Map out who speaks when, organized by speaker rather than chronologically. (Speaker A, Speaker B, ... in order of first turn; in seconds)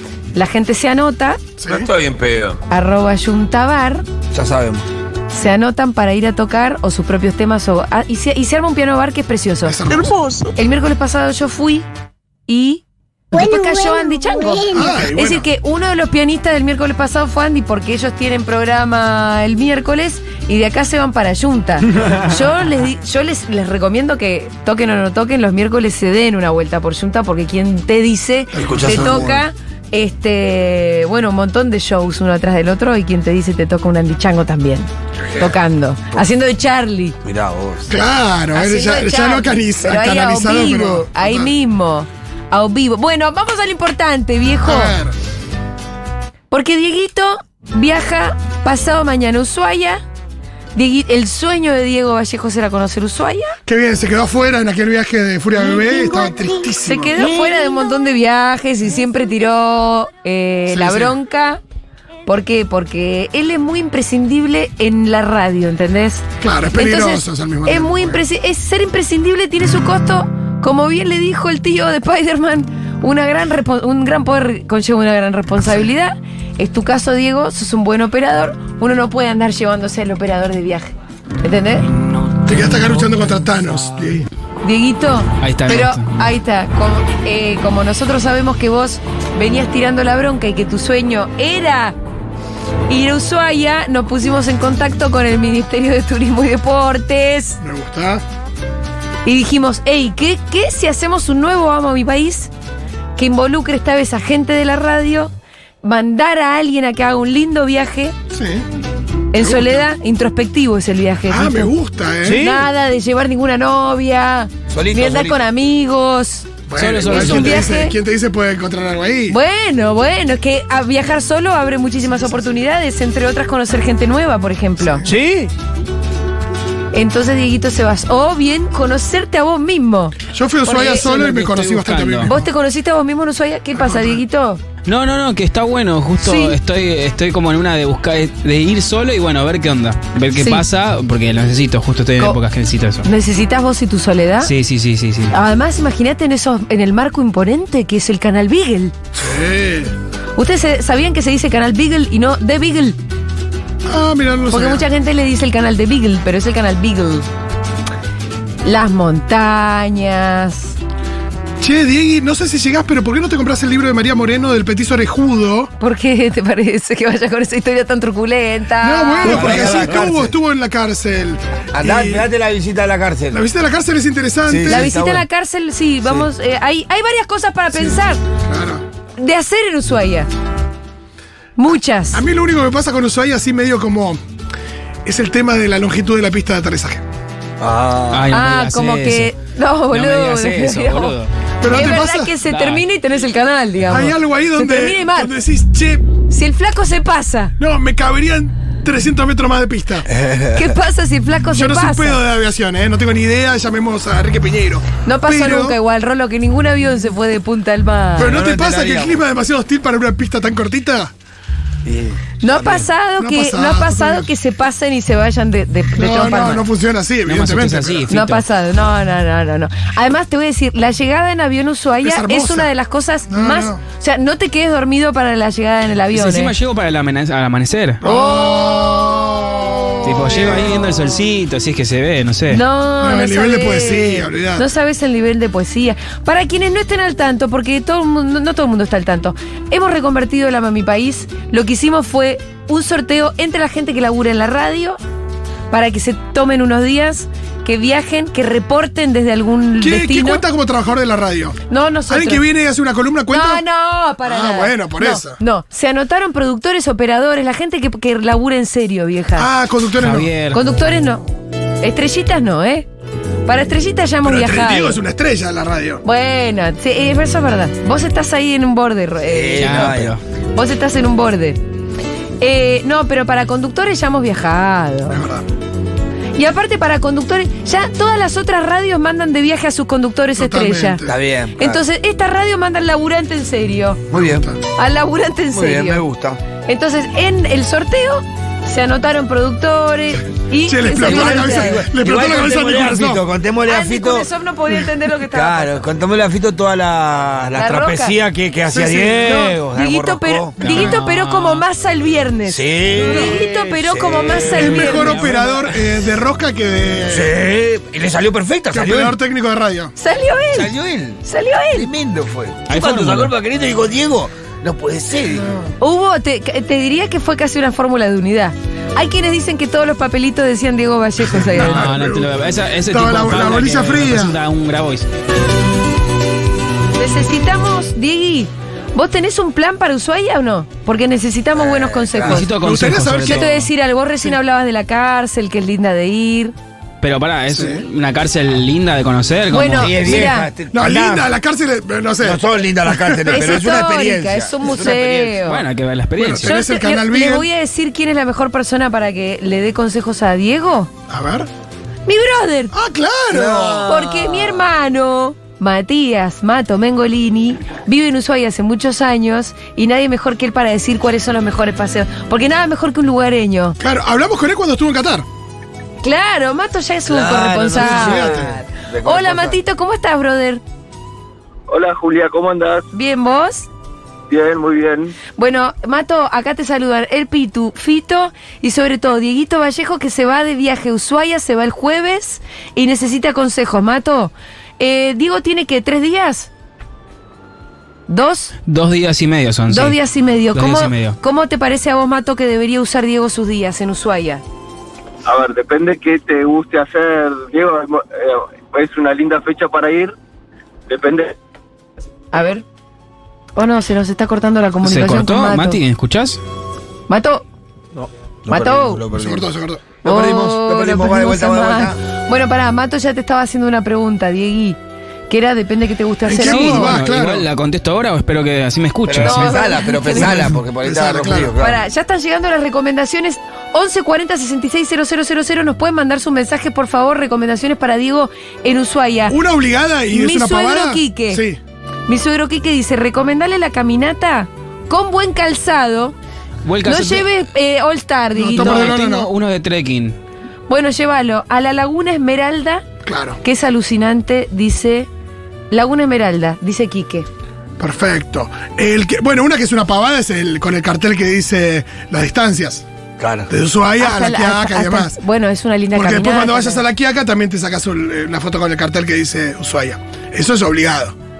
Speaker A: 0.3-1.4, 2.7-4.0, 5.3-9.8, 10.5-11.9, 12.5-37.2, 38.5-45.0, 46.5-50.0, 50.8-53.6, 56.8-61.6, 62.3-81.9, 84.6-92.0, 92.9-97.6, 99.2-102.5, 103.2-105.3, 105.8-108.2, 109.3-111.7, 112.2-116.5, 117.0-118.0, 119.3-125.1, 126.9-131.4, 132.2-134.6, 136.2-136.6, 140.3-140.6, 143.0-144.5, 145.3-148.9, 150.4-153.0, 154.5-157.3, 158.6-160.8, 165.8-170.0, 174.7-178.2, 179.2-180.3, 181.6-182.2, 188.3-195.3, 196.3-197.5, 200.5-202.2, 205.0-208.4, 212.4-216.6, 218.1-226.5, 228.0-229.3, 232.5-245.0, 245.7-250.4, 251.7-252.4, 253.3-259.5, 260.5-261.2, 261.8-262.9, 263.5-265.0, 266.0-270.0, 270.6-271.6, 272.4-275.2, 276.4-281.1, 281.6-284.0, 284.7-286.0, 286.5-291.8, 293.7-295.8, 297.6-298.1, 299.2-305.2, 310.0-311.9, 315.8-321.9, 327.0-332.5, 333.2-336.5, 339.5-340.5, 343.3-345.6, 346.4-350.9, 352.1-352.7, 353.9-363.8, 366.0-370.6, 372.9-373.7, 375.4-386.5, 388.1-388.5, 389.7-394.4, 402.3-402.6, 403.6-405.8, 407.1-407.4, 408.5-409.0, 410.0-414.8, 415.3-417.0, 419.2-420.5, 421.6-429.4, 430.1-431.4, 432.1-436.1, 436.8-439.1, 440.7-442.9, 443.4-445.1, 445.7-447.3, 454.0-456.8
Speaker B: 1.6-1.9, 9.6-10.4, 14.7-15.5, 28.5-29.3, 37.9-41.5, 44.6-45.2, 53.7-57.3, 60.7-61.1, 66.4-68.2, 82.5-84.3, 97.6-98.2, 108.3-108.7, 109.4-109.8, 111.3-112.5, 116.7-119.4, 130.3-132.5, 133.8-134.2, 149.2-149.9, 153.9-154.9, 161.6-165.7, 168.8-172.3, 173.3-174.9, 177.7-178.8, 182.1-184.2, 185.1-187.0, 191.6-192.3, 193.9-196.0, 197.6-200.1, 201.5-205.8, 208.2-211.1, 213.2-214.3, 216.0-218.1, 222.0-222.7, 223.3-223.8, 228.0-230.9, 233.0-234.7, 249.8-253.6, 254.2-255.4, 259.4-260.3, 264.2-266.0, 275.1-275.5, 280.4-281.1, 284.2-284.6, 290.6-293.2, 298.7-299.4, 300.6-301.0, 304.6-307.3, 308.7-309.9, 321.5-324.4, 332.6-333.5, 337.5-337.8, 340.7-343.4, 346.2-347.5, 351.1-351.5, 352.7-353.9, 363.8-365.2, 367.8-368.6, 409.1-409.8, 416.3-417.5, 420.2-421.5, 429.3-431.6, 438.4-439.3, 443.1-443.4, 447.8-452.9, 453.5-455.2, 455.9-461.1
Speaker C: 1.7-2.6, 4.3-4.9, 28.6-29.4, 37.2-37.9, 112.3-112.5, 114.7-115.4, 125.1-125.5, 169.2-170.3, 171.7-173.4, 174.5-175.2, 187.6-188.3, 200.1-200.6, 208.2-209.2, 211.8-212.8, 269.2-270.1, 281.1-281.8, 284.1-284.5, 285.5-286.4, 291.0-294.3, 295.3-300.6, 302.4-305.2, 307.1-309.1, 310.5-315.6, 331.6-332.5, 339.7-341.3, 342.2-345.5, 353.3-354.7, 367.1-369.6, 407.9-409.5, 410.0-412.0, 419.1-421.8, 453.2-453.5
Speaker D: 85.4-86.1, 116.8-117.7, 131.1-132.3, 134.9-143.1, 144.4-145.3, 188.1-189.3, 189.9-191.3, 192.5-192.8, 217.3-218.4, 226.1-228.0, 230.0-232.6, 260.0-260.6, 269.6-270.2, 300.6-301.6, 304.6-305.6, 312.7-313.3, 321.5-325.1, 332.3-333.7, 337.0-340.2, 345.4-346.6, 388.7-390.0, 390.5-391.2, 404.8-406.4, 416.4-419.8, 436.6-437.3, 438.5-440.2
Speaker E: 371.7-372.9, 374.3-375.2, 395.2-400.1, 400.9-401.4